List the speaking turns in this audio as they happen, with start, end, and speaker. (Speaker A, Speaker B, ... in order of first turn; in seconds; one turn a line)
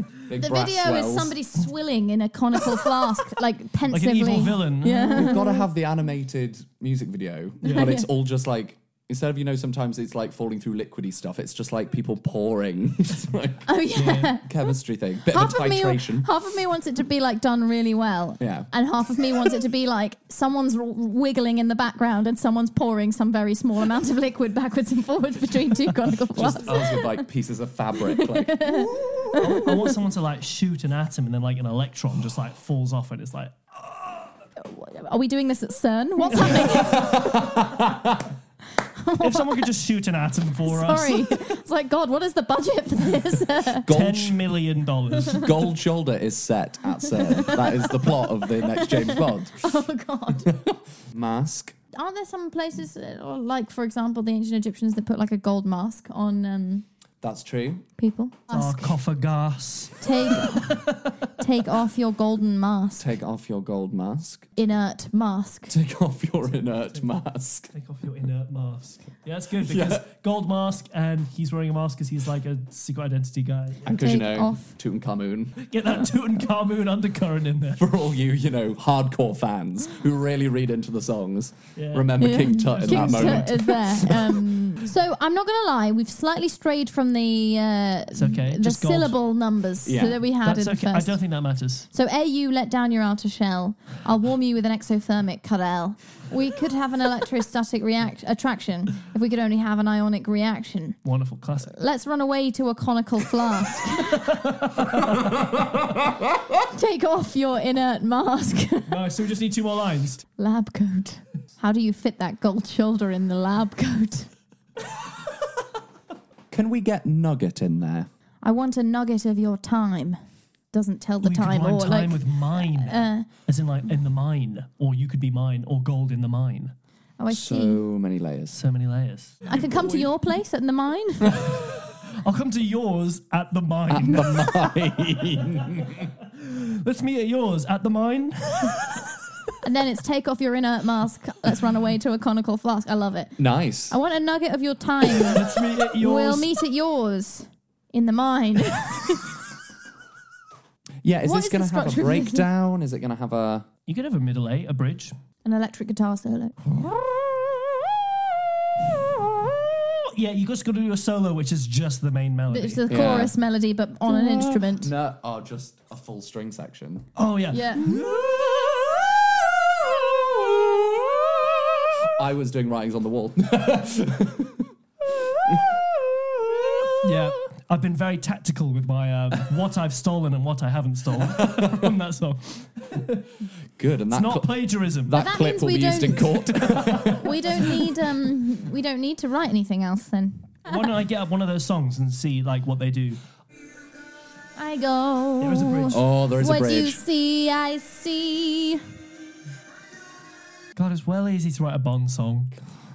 Speaker A: 0.2-1.4
Speaker B: 0.4-5.7
Speaker C: 3.9-5.4
Speaker A: 5.1-13.7
Speaker C: 7.6-8.0
Speaker B: 7.7-8.1
Speaker B: 13.7-14.7
Speaker C: 13.9-14.4
Speaker A: 14.4-16.3
Speaker B: 15.3-27.2
Speaker A: 18.4-18.7
Speaker A: 26.3-29.2
Speaker B: 28.0-29.9
Speaker C: 29.3-33.6
Speaker B: 34.6-37.2
Speaker C: 36.3-37.0
Speaker A: 36.6-38.3
Speaker B: 39.0-39.7
Speaker C: 39.2-41.5
Speaker B: 40.6-43.9
Speaker A: 43.8-44.5
Speaker C: 43.9-45.5
Speaker A: 45.3-49.7
Speaker B: 47.1-50.5
Speaker A: 50.4-51.8
Speaker B: 51.9-56.9
Speaker A: 57.2-57.9
Speaker B: 58.0-59.0
Speaker C: 58.5-61.3
Speaker B: 60.0-60.8
Speaker B: 61.4-63.1
Speaker A: 63.0-64.5
Speaker B: 64.6-65.7
Speaker A: 65.7-67.7
Speaker C: 67.7-74.2
Speaker A: 69.7-70.1
Speaker A: 73.8-76.0
Speaker B: 73.9-74.7
Speaker C: 75.6-77.8
Speaker A: 77.8-84.2
Speaker C: 81.8-84.2
Speaker B: 82.2-91.2
Speaker C: 88.2-89.2
Speaker A: 89.8-90.2
Speaker C: 90.4-91.9
Speaker B: 91.9-101.0
Speaker C: 101.0-101.8
Speaker B: 101.8-104.3
Speaker C: 104.0-105.5
Speaker A: 105.0-106.5
Speaker B: 106.6-109.1
Speaker C: 108.9-110.2
Speaker B: 110.4-114.3
Speaker A: 116.5-118.1
Speaker B: 118.4-120.2
Speaker B: 120.7-123.3
Speaker C: 121.2-126.7
Speaker B: 127.2-127.8
Speaker A: 127.3-128.6
Speaker C: 128.5-130.1
Speaker B: 129.5-131.5
Speaker C: 131.5-139.2
Speaker A: 133.9-136.1
Speaker B: 139.6-149.3
Speaker A: 143.4-144.0
Speaker C: 145.3-146.5
Speaker A: 151.0-153.7
Speaker B: 151.2-152.5
Speaker C: 153.9-155.2
Speaker B: 155.4-156.8
Speaker C: 160.0-163.0
Speaker B: 162.5-164.9
Speaker A: 162.9-163.3
Speaker A: 164.1-167.1
Speaker C: 167.2-167.8
Speaker B: 167.5-168.1
Speaker A: 167.8-174.7
Speaker A: 175.4-177.1
Speaker C: 177.0-183.3
Speaker A: 181.4-181.7
Speaker A: 183.8-187.9
Speaker C: 184.1-185.3
Speaker B: 185.1-186.5
Speaker B: 187.0-190.9
Speaker C: 190.7-193.2
Speaker B: 194.6-198.8
Speaker C: 195.4-196.0
Speaker A: 195.9-197.0
Speaker C: 200.8-202.5